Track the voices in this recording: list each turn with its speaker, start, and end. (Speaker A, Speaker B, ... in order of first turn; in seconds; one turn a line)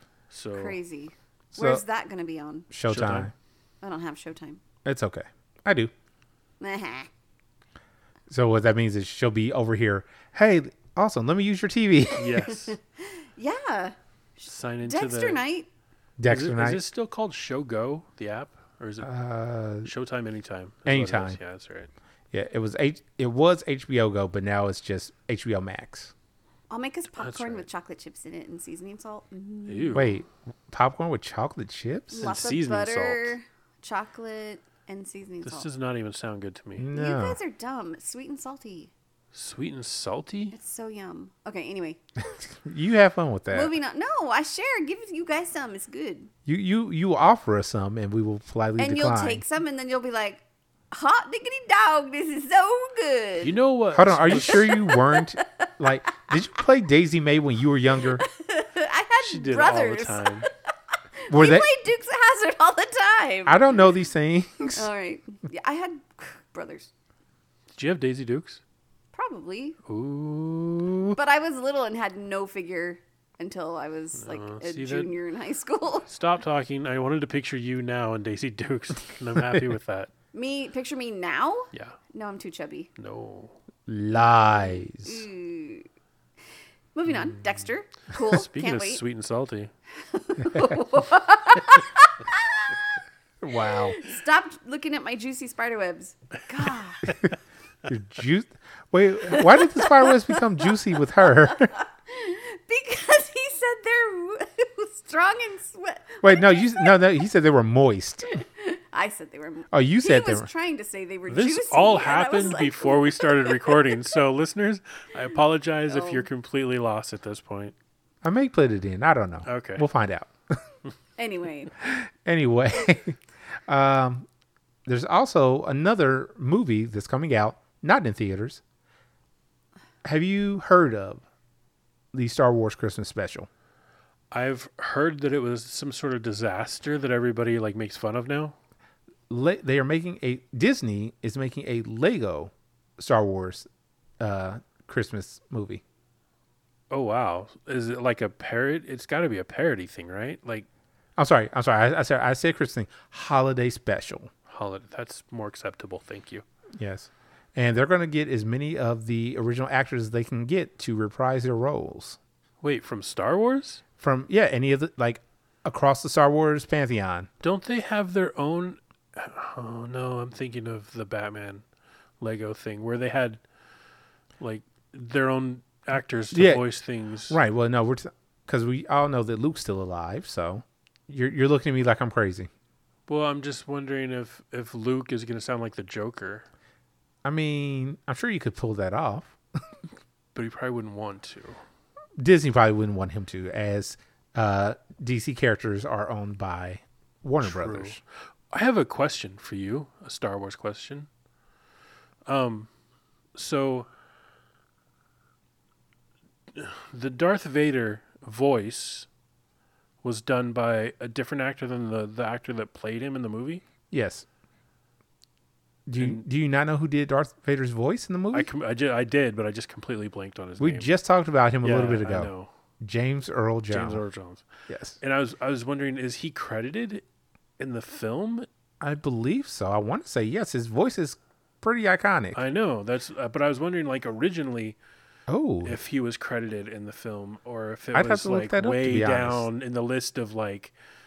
Speaker A: 0.3-0.8
Speaker B: 0.6-2.7
Speaker C: 1.5-1.8
Speaker C: 2.7-3.3
Speaker A: 2.9-3.3
Speaker B: 3.8-4.6
Speaker C: 4.8-5.9
Speaker B: 6.6-7.1
Speaker C: 8.3-12.4
Speaker A: 12.2-12.8
Speaker B: 13.0-15.7
Speaker A: 14.5-15.4
Speaker C: 16.2-16.8
Speaker A: 16.3-19.1
Speaker C: 19.0-19.9
Speaker A: 19.8-21.9
Speaker C: 20.9-21.4
Speaker C: 22.3-26.1
Speaker B: 26.7-30.0
Speaker A: 27.2-27.7
Speaker A: 29.7-30.2
Speaker C: 29.9-32.3
Speaker B: 32.1-35.7
Speaker A: 32.2-33.4
Speaker A: 35.4-36.9
Speaker C: 36.8-37.4
Speaker B: 36.9-38.9
Speaker A: 39.3-40.5
Speaker B: 40.5-42.0
Speaker C: 42.5-43.7
Speaker B: 43.5-46.3
Speaker C: 46.5-49.4
Speaker B: 48.8-53.5
Speaker A: 53.4-54.7
Speaker C: 53.9-58.2
Speaker B: 54.4-55.4
Speaker B: 58.2-60.5
Speaker A: 59.2-60.5
Speaker B: 61.2-63.9
Speaker C: 61.3-61.7
Speaker C: 63.5-64.9
Speaker B: 64.6-66.9
Speaker A: 67.7-68.6
Speaker B: 69.1-69.8
Speaker A: 69.9-71.2
Speaker B: 71.2-76.1
Speaker A: 74.2-75.1
Speaker A: 76.1-80.1
Speaker B: 80.3-82.9
Speaker A: 83.0-83.5
Speaker C: 83.9-85.2
Speaker B: 84.5-85.9
Speaker B: 86.9-89.0
Speaker A: 88.3-89.7
Speaker B: 90.1-92.8
Speaker C: 93.4-94.0
Speaker B: 93.6-97.1
Speaker C: 97.9-101.7
Speaker B: 101.5-107.0
Speaker C: 106.2-108.4
Speaker B: 108.3-113.8
Speaker C: 109.7-110.5
Speaker A: 111.3-117.7
Speaker B: 115.9-116.3
Speaker C: 118.2-120.6
Speaker A: 119.5-119.9
Speaker B: 121.2-121.7
Speaker C: 121.8-124.3
Speaker C: 124.9-128.6
Speaker C: 130.0-131.2
Speaker C: 132.1-133.5
Speaker A: 134.3-138.6
Speaker C: 139.3-143.7
Speaker C: 144.2-145.8
Speaker A: 146.9-150.7
Speaker C: 151.2-154.3
Speaker A: 154.5-156.4
Speaker C: 156.8-162.2
Speaker A: 162.6-163.8
Speaker C: 164.0-167.3
Speaker A: 167.4-171.6
Speaker A: 172.2-173.4
Speaker A: 174.4-177.4
Speaker C: 176.3-176.6
Speaker C: 177.3-182.5
Speaker A: 183.1-186.5
Speaker C: 187.2-189.4
Speaker A: 190.3-191.6
Speaker C: 192.2-198.0
Speaker A: 197.4-201.1
Speaker A: 202.3-202.7
Speaker A: 203.3-203.9
Speaker A: 206.5-209.1
Speaker A: 210.0-213.6
Speaker C: 213.9-214.3
Speaker C: 215.9-218.5
Speaker A: 216.0-216.2
Speaker A: 218.3-220.9
Speaker C: 220.6-224.0
Speaker A: 221.6-222.5
Speaker A: 223.7-224.5
Speaker C: 224.7-225.0
Speaker A: 225.0-227.0
Speaker A: 227.6-228.5
Speaker C: 228.8-232.4
Speaker A: 232.3-234.8
Speaker C: 235.3-235.8
Speaker A: 235.6-240.7
Speaker C: 237.9-239.4